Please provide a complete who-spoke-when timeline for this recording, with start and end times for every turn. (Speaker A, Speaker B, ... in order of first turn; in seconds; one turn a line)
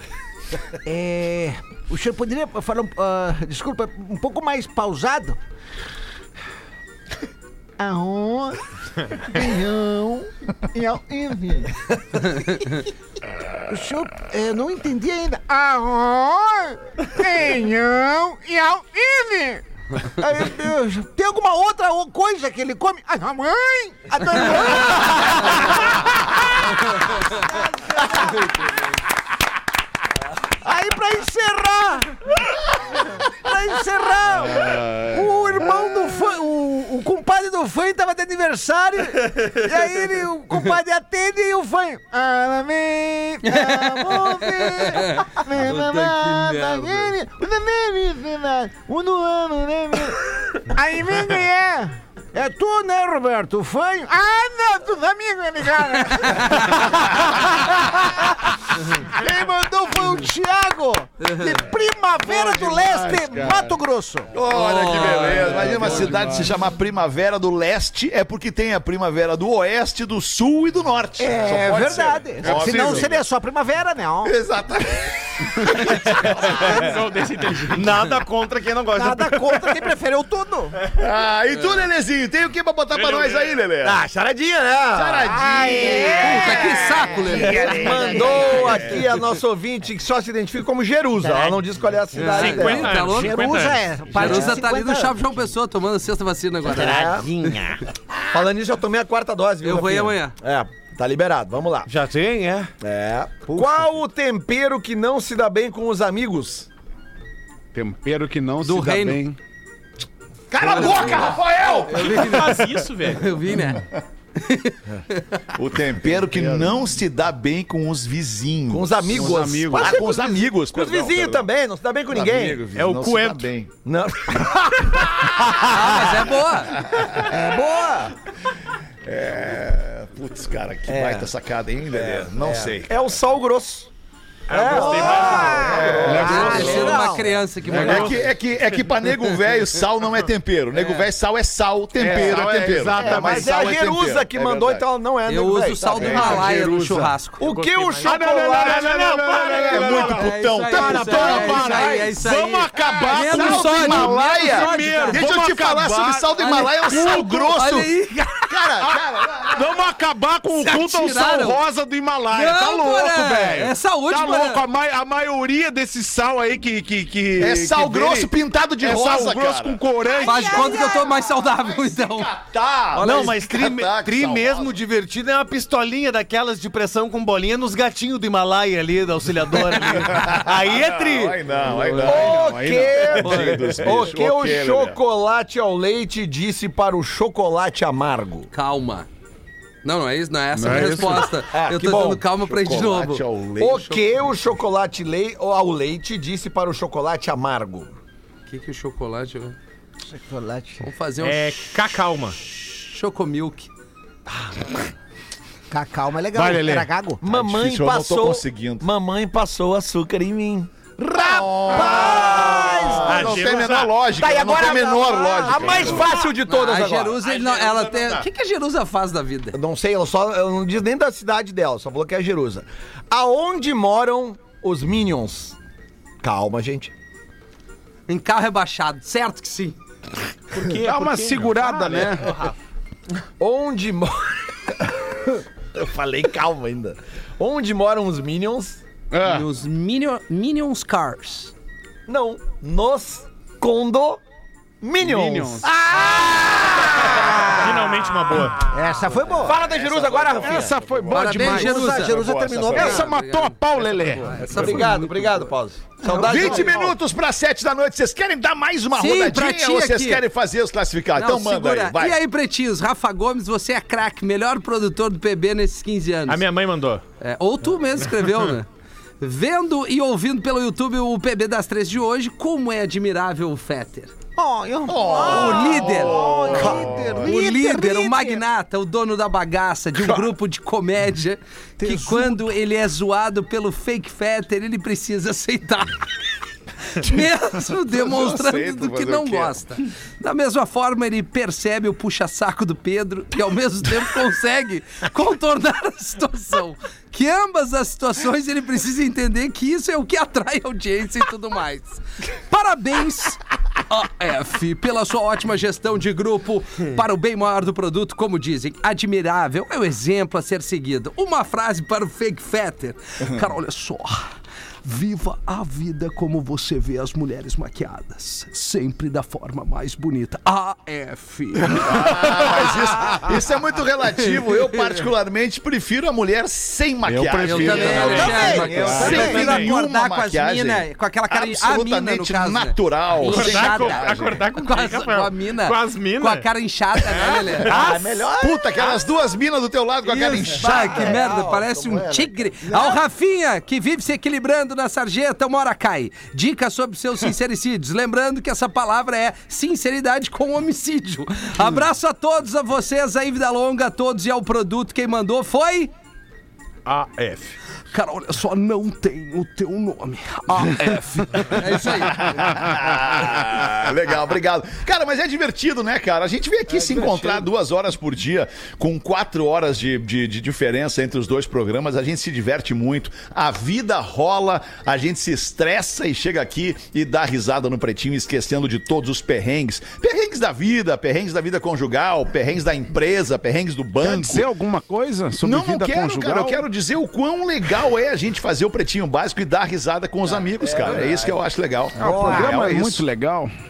Speaker A: 0.8-5.4
Speaker A: 7.8-12.9
Speaker A: 13.7-28.6
Speaker A: 30.6-64.3
Speaker B: 43.4-47.1
Speaker B: 56.2-56.7
Speaker B: 61.2-61.6
Speaker C: 62.2-63.8
Speaker D: 64.3-73.2
Speaker E: 64.5-65.5
Speaker B: 64.6-65.3
Speaker C: 65.4-66.5
Speaker A: 71.2-74.3
Speaker C: 72.4-73.1
Speaker D: 74.2-77.1
Speaker F: 76.4-78.1
Speaker E: 77.7-79.7
Speaker A: 78.9-80.8
Speaker D: 80.9-84.0
Speaker F: 82.9-83.5
Speaker E: 83.8-84.4
Speaker G: 83.9-85.2
Speaker D: 84.9-89.2
Speaker A: 85.2-89.0
Speaker B: 86.2-87.7
Speaker G: 87.5-93.1
Speaker A: 91.2-91.6
Speaker F: 92.1-93.8
Speaker B: 92.2-93.5
Speaker A: 93.0-95.2
Speaker B: 94.1-97.1
Speaker G: 96.7-97.3
Speaker E: 96.7-97.8
Speaker G: 98.3-101.9
Speaker B: 99.6-100.3
Speaker E: 101.8-102.7
Speaker G: 102.8-106.7
Speaker E: 103.5-103.9
Speaker C: 107.7-109.4
Speaker B: 108.6-109.2
Speaker D: 110.5-112.4
Speaker B: 110.6-115.4
Speaker F: 111.9-113.3
Speaker D: 115.5-121.5
Speaker C: 116.2-116.8
Speaker G: 118.7-122.6
Speaker C: 119.1-120.0
Speaker D: 122.1-123.7
Speaker C: 122.1-122.7
Speaker F: 122.7-123.5
Speaker G: 123.8-125.8
Speaker D: 125.2-125.5
Speaker B: 125.6-126.7
Speaker D: 126.8-127.4
Speaker G: 127.3-128.1
Speaker A: 127.3-127.9
Speaker D: 129.1-133.0
Speaker G: 130.9-131.3
Speaker G: 131.9-133.9
Speaker F: 134.5-135.8
Speaker G: 134.5-137.2
Speaker A: 134.7-137.3
Speaker B: 135.1-135.4
Speaker D: 135.2-136.7
Speaker C: 135.9-137.0
Speaker B: 136.2-138.2
Speaker C: 137.6-138.2
Speaker D: 137.7-144.9
Speaker C: 142.0-144.0
Speaker G: 142.1-142.4
Speaker G: 142.9-146.5
Speaker B: 145.3-147.4
Speaker C: 145.9-147.1
Speaker D: 146.0-146.3
Speaker G: 147.4-149.4
Speaker F: 147.4-151.9
Speaker C: 148.0-157.5
Speaker D: 149.5-151.6
Speaker B: 149.9-155.2
Speaker D: 152.7-159.7
Speaker B: 156.4-158.8
Speaker C: 159.5-168.3
Speaker B: 160.5-161.6
Speaker B: 162.3-164.6
Speaker D: 167.4-174.8
Speaker C: 168.8-170.7
Speaker B: 170.2-172.3
Speaker A: 170.2-171.2
Speaker E: 172.9-182.0
Speaker D: 180.0-185.0
Speaker C: 181.8-183.1
Speaker G: 182.0-188.5
Speaker B: 188.5-189.1
Speaker B: 189.8-194.0
Speaker C: 190.5-191.4
Speaker G: 191.5-192.2
Speaker D: 192.4-193.9
Speaker G: 193.6-198.0
Speaker B: 198.5-199.6
Speaker A: 200.1-200.8
Speaker B: 200.8-201.7
Speaker F: 201.2-202.4
Speaker B: 202.5-203.7
Speaker A: 205.7-207.2
Speaker C: 206.3-206.9
Speaker G: 207.2-210.7
Speaker D: 207.2-208.9
Speaker D: 211.0-216.1
Speaker A: 211.2-213.4
Speaker G: 211.7-213.2
Speaker F: 213.0-213.9
Speaker G: 214.2-217.2
Speaker A: 214.2-216.1
Speaker F: 215.6-216.3
Speaker B: 216.4-219.6
Speaker F: 217.2-218.3
Speaker G: 219.5-225.6
Speaker G: 226.2-226.9
Speaker B: 228.1-229.8
Speaker F: 230.5-232.6
Speaker C: 230.8-232.4
Speaker G: 233.4-235.1
Speaker G: 235.7-238.8
Speaker C: 239.1-239.5
Speaker B: 239.2-241.5
Speaker G: 242.1-244.2
Speaker G: 244.8-245.7
Speaker C: 245.0-245.7
Speaker A: 245.6-247.9
Speaker F: 247.5-248.6
Speaker A: 248.7-249.6
Speaker G: 249.4-250.7
Speaker D: 249.4-253.0
Speaker C: 250.4-252.1
Speaker B: 251.1-252.2
Speaker A: 251.3-253.1
Speaker C: 252.7-254.8
Speaker B: 252.8-255.5
Speaker G: 254.4-256.9
Speaker B: 256.0-256.6
Speaker D: 256.1-262.2
Speaker B: 258.9-260.2
Speaker B: 261.1-266.4
Speaker F: 266.3-267.0
Speaker B: 267.2-268.7
Speaker B: 269.2-274.1
Speaker A: 274.4-278.4
Speaker D: 274.9-277.3
Speaker B: 275.1-276.2
Speaker B: 277.2-286.0
Speaker A: 281.8-282.5
Speaker B: 286.9-322.7
Speaker D: 287.9-289.6
Speaker D: 321.7-334.4
Speaker C: 327.1-329.2
Speaker B: 327.4-337.8
Speaker G: 327.9-329.4
Speaker A: 327.9-329.4
Speaker F: 329.1-329.7
Speaker F: 333.2-336.5
Speaker F: 337.1-337.8
Speaker G: 337.6-338.9
Speaker D: 337.6-341.2
Speaker B: 340.1-355.9
Speaker G: 340.4-342.8
Speaker F: 356.9-357.6
Speaker B: 357.9-362.6
Speaker C: 360.5-361.8
Speaker D: 362.1-384.5
Speaker C: 384.0-386.6
Speaker D: 385.4-393.0
Speaker G: 390.6-391.4
Speaker C: 392.0-393.5
Speaker G: 392.0-392.8